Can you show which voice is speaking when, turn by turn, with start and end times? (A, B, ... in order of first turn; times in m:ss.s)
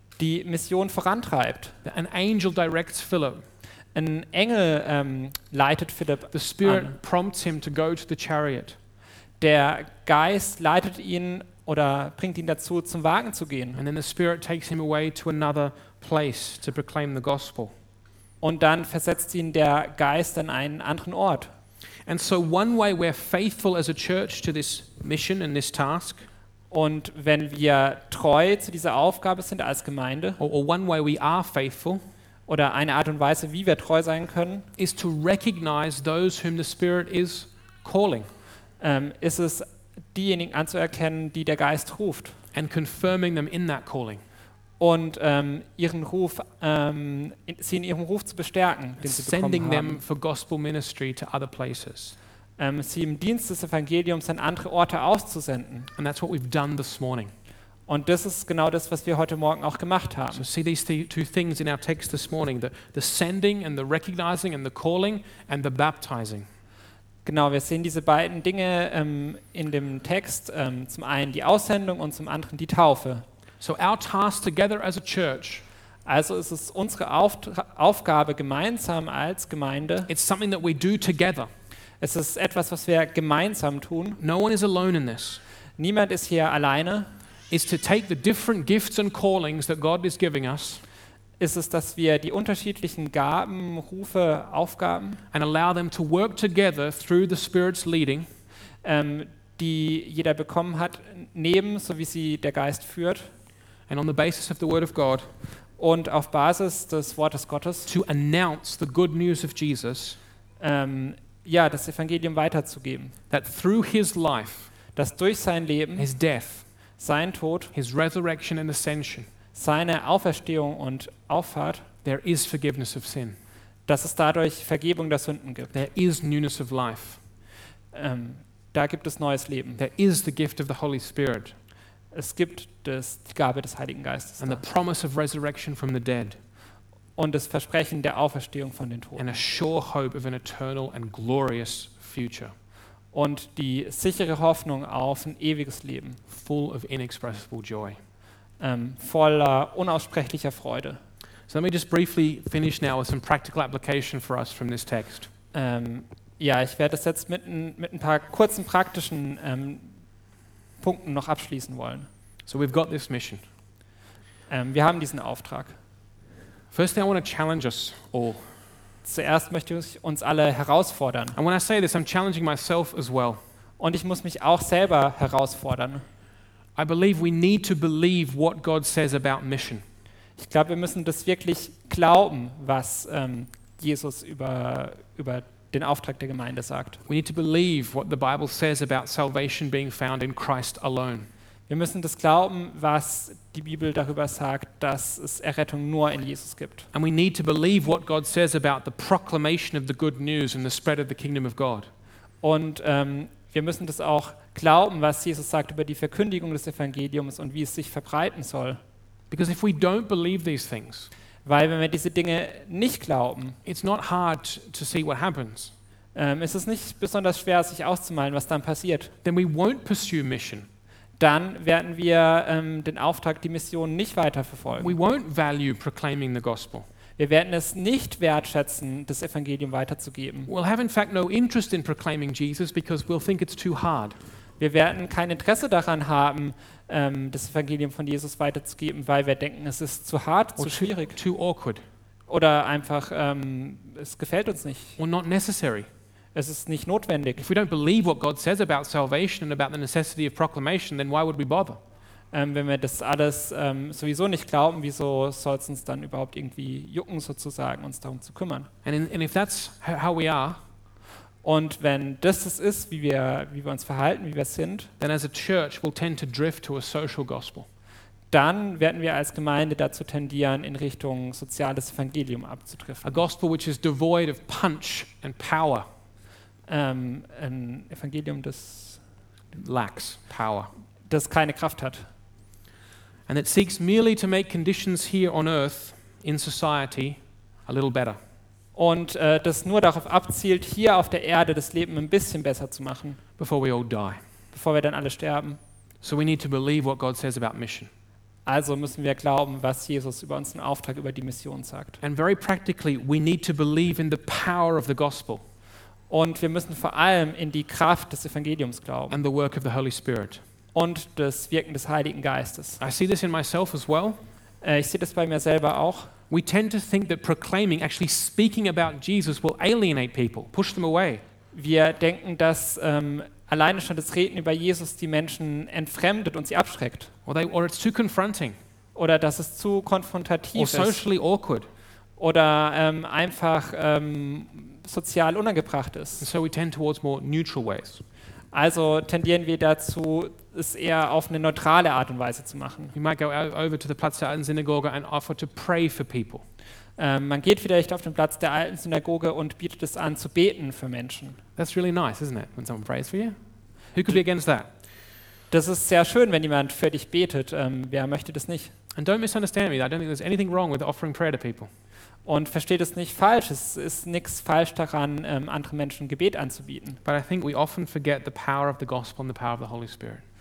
0:00.2-0:01.8 A
0:01.8-0:03.4 B
0:04.0-0:07.0 A
0:06.3-0:08.8 B
0:09.4-0:13.8 A
0:13.8-0:17.7 B
0:18.4-0:21.5 A
0:22.1-0:26.3 B
0:26.7-0:30.4 A
0:30.4-0:32.0 B
0:32.5-0:34.7 A
0:34.8-0:38.3 B
0:38.8-0:42.4 A
0:42.5-0:44.2 B
0:44.8-0:50.0 A
0:49.0-0:52.2 B
0:52.6-0:55.9 A
0:56.0-0:57.3 B
0:57.9-1:00.5 A
1:00.3-1:06.5 B
1:07.2-1:13.2 A
1:13.6-1:15.6 B
1:16.1-1:20.1 A
1:20.1-1:21.5 B
1:22.0-1:24.2 A
1:24.2-1:25.4 B
1:25.8-1:27.1 A
1:27.5-1:30.8 B
1:31.4-1:35.2 A
1:35.3-1:38.3 B
1:38.8-1:43.3 A
1:43.9-1:45.3 B
1:45.8-1:47.9 A
1:47.9-1:50.2 B
1:50.6-1:53.2 A
1:53.3-1:54.7 B
1:55.0-1:56.1 A
1:56.0-1:56.6 B
1:57.0-1:57.7 A
1:57.7-1:59.3 B
1:59.5-2:01.9 A
2:02.0-2:03.4 B
2:03.9-2:05.8 A
2:05.7-2:07.2 B
2:07.9-2:09.8 A
2:09.8-2:11.5 B
2:12.1-2:14.6 A
2:14.4-2:16.4 B
2:17.2-2:19.3 A
2:19.2-2:22.5 B
2:23.1-2:26.2 A
2:26.3-2:28.0 B
2:28.6-2:31.0 A
2:31.5-2:35.3 B
2:35.5-2:39.9 A
2:40.8-2:42.1 A
2:42.4-2:43.4 B
2:44.5-2:45.8 A
2:46.7-2:48.5 B
2:49.0-2:51.4 A
2:51.4-2:53.4 B
2:53.8-2:56.0 A
2:56.8-2:59.8 B
3:00.4-3:07.0 A
3:07.1-3:11.3 B
3:11.7-3:16.9 A
3:16.9-3:21.9 B
3:22.4-3:28.8 A
3:29.3-3:31.1 B
3:31.5-3:33.6 A
3:33.6-3:35.7 B
3:36.2-3:39.1 A
3:39.2-3:40.7 B
3:41.2-3:44.9 A
3:44.8-3:46.9 B
3:47.2-3:50.5 A
3:50.5-3:54.2 B
3:54.6-4:01.2 A
4:00.6-4:01.8 B
4:02.3-4:05.0 A
4:05.0-4:05.9 B
4:06.4-4:07.5 A
4:07.4-4:11.8 B
4:12.3-4:18.7 A
4:18.8-4:20.6 B
4:21.4-4:24.9 A
4:25.0-4:27.7 B
4:28.3-4:33.2 A
4:33.0-4:35.8 B
4:36.7-4:39.0 A
4:39.5-4:40.7 B
4:41.1-4:42.0 A
4:43.3-4:48.2 B
4:48.8-4:53.2 A
4:53.4-4:54.2 B
4:54.5-4:55.6 A
4:56.0-4:57.9 B
4:58.5-5:02.0 A
5:02.0-5:05.4 B
5:06.1-5:09.2 A
5:09.1-5:10.4 B
5:10.8-5:12.8 A
5:12.8-5:14.2 B
5:14.6-5:16.1 A
5:16.3-5:21.2 B
5:21.5-5:27.1 A
5:27.3-5:28.6 B
5:29.0-5:31.0 A
5:30.6-5:31.7 B
5:32.2-5:36.3 A
5:36.2-5:38.0 B
5:38.5-5:42.9 A
5:42.9-5:46.4 B
5:47.0-5:51.4 A
5:51.6-5:53.4 B
5:53.9-5:54.7 B
5:55.5-5:58.7 A
5:59.0-6:01.7 B
6:02.3-6:07.0 A
6:07.0-6:10.2 B